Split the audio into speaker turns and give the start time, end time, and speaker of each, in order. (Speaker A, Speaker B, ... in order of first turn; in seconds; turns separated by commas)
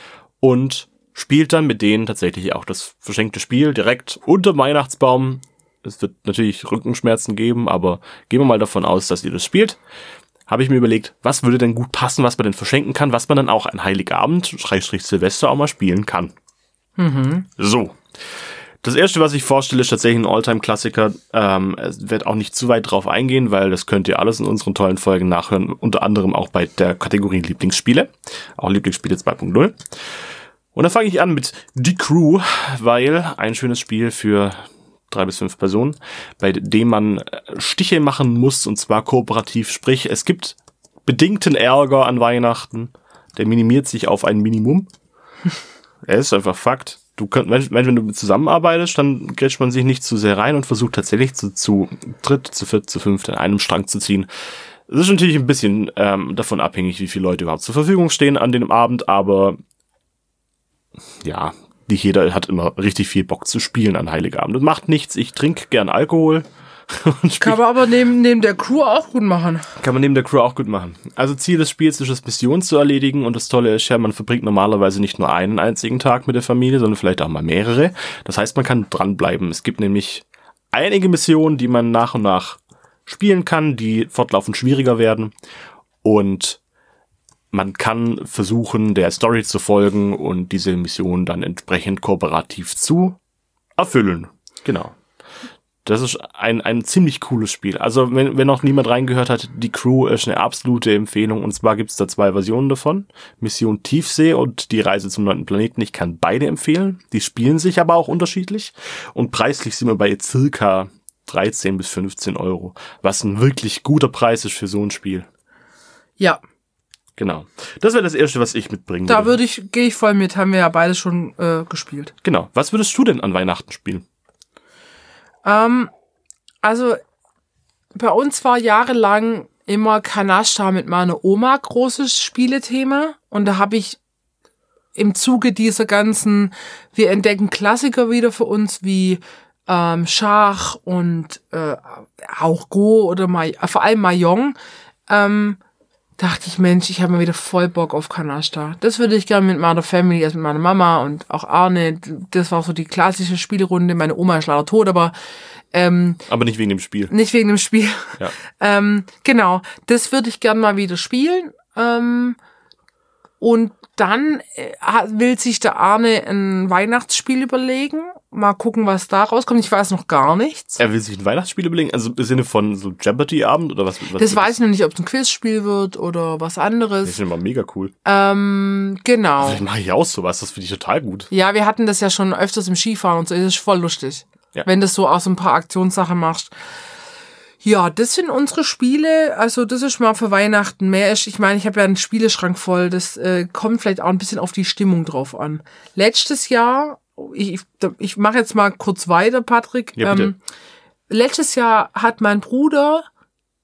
Speaker A: 0.4-9.8, Speaker A: 10.5-16.3, Speaker B: 17.0-17.5, Speaker A: 17.6-18.0, Speaker A: 18.8-29.8, Speaker A: 30.7-34.6, Speaker A: 35.1-44.9, Speaker A: 46.0-54.3, Speaker A: 54.9-59.6, Speaker A: 61.2-67.6, Speaker B: 67.4-69.7, Speaker A: 69.8-85.3, Speaker A: 86.0-86.6, Speaker A: 87.5-93.2, Speaker A: 93.8-95.0, Speaker A: 95.8-115.3, Speaker A: 117.2-119.4, Speaker B: 119.1-122.1, Speaker A: 122.2-124.0, Speaker B: 125.4-125.9, Speaker B: 126.6-127.0, Speaker B: 127.9-134.0, Speaker B: 134.9-144.6, Speaker B: 145.1-145.6, Speaker B: 146.2-155.1, Speaker B: 155.7-156.2, Speaker A: 156.3-157.1, Speaker B: 157.1-162.4, Speaker B: 163.4-170.8, Speaker A: 170.8-174.5, Speaker B: 174.2-177.2, Speaker A: 177.0-177.9, Speaker B: 178.0-179.6, Speaker A: 179.4-181.3, Speaker B: 181.3-186.5, Speaker B: 187.6-200.4, Speaker A: 200.0-200.3, Speaker B: 201.1-203.1